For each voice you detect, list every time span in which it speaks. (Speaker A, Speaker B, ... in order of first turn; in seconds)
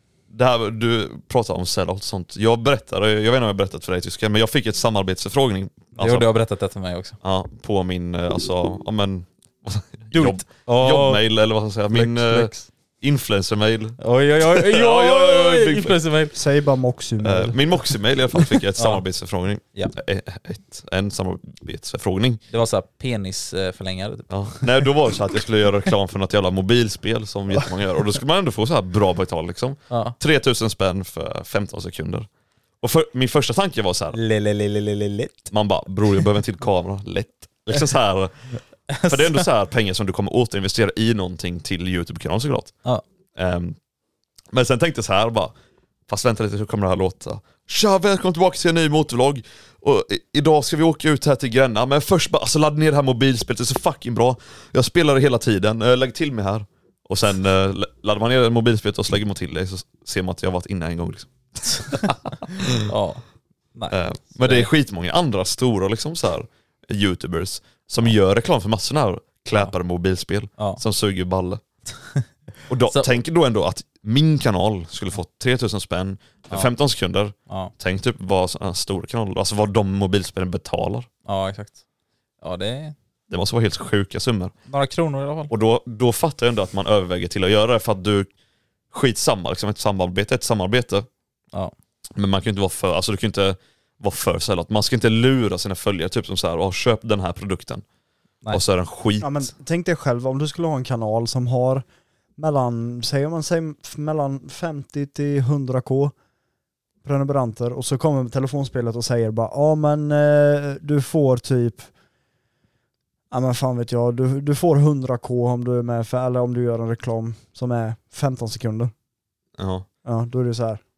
Speaker A: 0.3-6.4, 7.2-16.0, 17.2-22.4, 24.3-32.3, 32.8-34.2, 35.5-38.3, 39.1-42.8, 43.3-43.8, 44.5-45.5, 46.1-62.8, 63.9-71.6, 72.7-81.1, 83.3-84.5, 85.5-88.3, 88.9-91.1, 92.2-97.8, 98.5-99.5, 119.6-119.9
Speaker B: 6.0-7.2, 10.1-11.3, 11.9-12.7, 14.0-16.4, 18.8-19.0, 22.5-24.9, 29.9-30.1, 34.1-35.5, 38.9-39.5, 62.9-63.2, 63.7-64.7, 72.9-73.1, 81.2-81.8, 82.4-82.9, 84.7-85.5
Speaker C: 16.3-17.6, 99.2-101.8, 102.4-106.1, 107.0-111.9, 113.3-118.9, 120.0-120.8